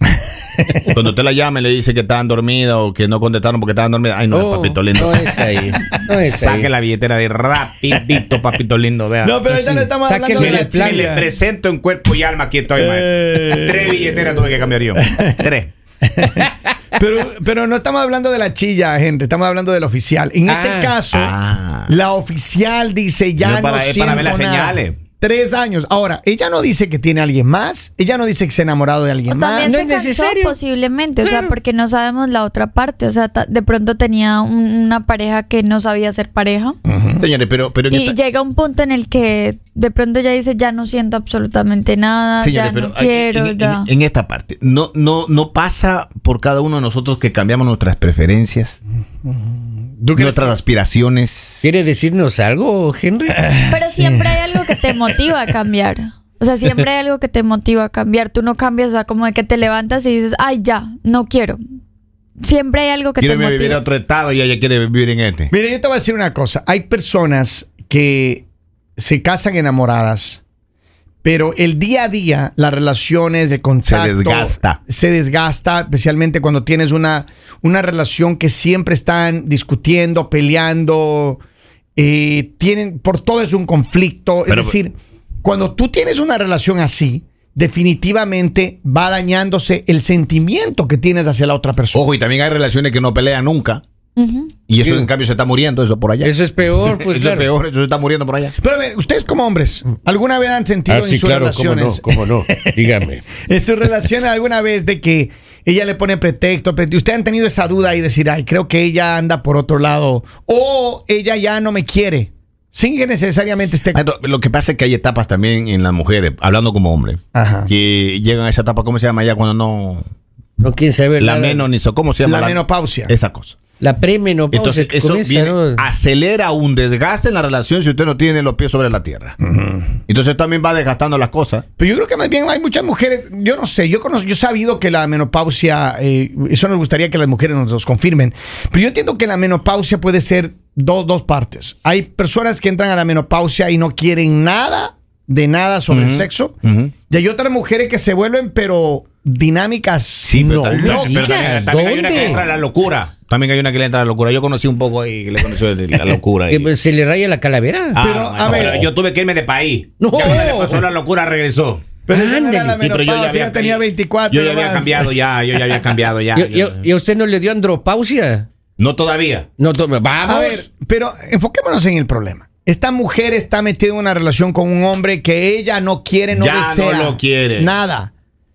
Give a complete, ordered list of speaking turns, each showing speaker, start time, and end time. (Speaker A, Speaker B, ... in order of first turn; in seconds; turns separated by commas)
Speaker A: 0.8-9.4, Speaker B: 4.3-6.7, Speaker C: 9.2-11.3, Speaker B: 9.4-11.2, Speaker A: 10.4-15.7, Speaker C: 12.8-14.2, Speaker C: 15.0-15.3, Speaker C: 16.9-21.3, Speaker B: 20.5-21.0, Speaker A: 21.1-21.9, Speaker C: 21.9-29.8, Speaker A: 23.4-25.0, Speaker D: 29.3-36.8, Speaker B: 29.6-30.6, Speaker B: 31.2-31.5, Speaker C: 36.9-37.2, Speaker A: 37.2-38.1, Speaker D: 37.9-43.9, Speaker A: 42.4-48.8, Speaker C: 49.2-50.5, Speaker A: 50.1-51.6, Speaker B: 51.6-53.5, Speaker C: 53.4-54.4, Speaker D: 53.7-61.6, Speaker D: 62.4-63.8, Speaker A: 63.2-65.5, Speaker C: 65.5-68.4, Speaker C: 69.0-70.4, Speaker C: 71.2-81.4, Speaker A: 73.9-74.8, Speaker C: 82.0-92.0, Speaker A: 84.5-84.8, Speaker A: 91.9-93.8, Speaker D: 94.2-94.5, Speaker A: 94.7-98.5, Speaker B: 94.8-95.1, Speaker B: 96.2-97.5, Speaker C: 98.6-102.8, Speaker B: 100.9-103.3, Speaker C: 103.4-114.0, Speaker A: 113.9-120.0, Speaker C: 117.3-117.7, Speaker B: 120.6-121.7, Speaker A: 121.2-123.5, Speaker C: 122.2-123.1, Speaker B: 123.8-125.8, Speaker A: 124.5-129.3, Speaker C: 129.4-129.9, Speaker A: 130.1-131.6, Speaker C: 131.8-146.6, Speaker A: 145.9-146.9, Speaker C: 147.1-151.6, Speaker A: 150.2-156.7, Speaker B: 150.3-152.4, Speaker C: 152.2-152.4, Speaker B: 156.5-158.0, Speaker A: 157.9-162.0, Speaker C: 158.0-158.9, Speaker B: 160.0-160.9, Speaker C: 162.1-165.1, Speaker B: 162.1-162.8, Speaker A: 162.8-166.8, Speaker B: 166.3-168.5, Speaker A: 168.8-169.5, Speaker B: 169.6-170.7, Speaker C: 170.2-178.1, Speaker A: 176.3-177.7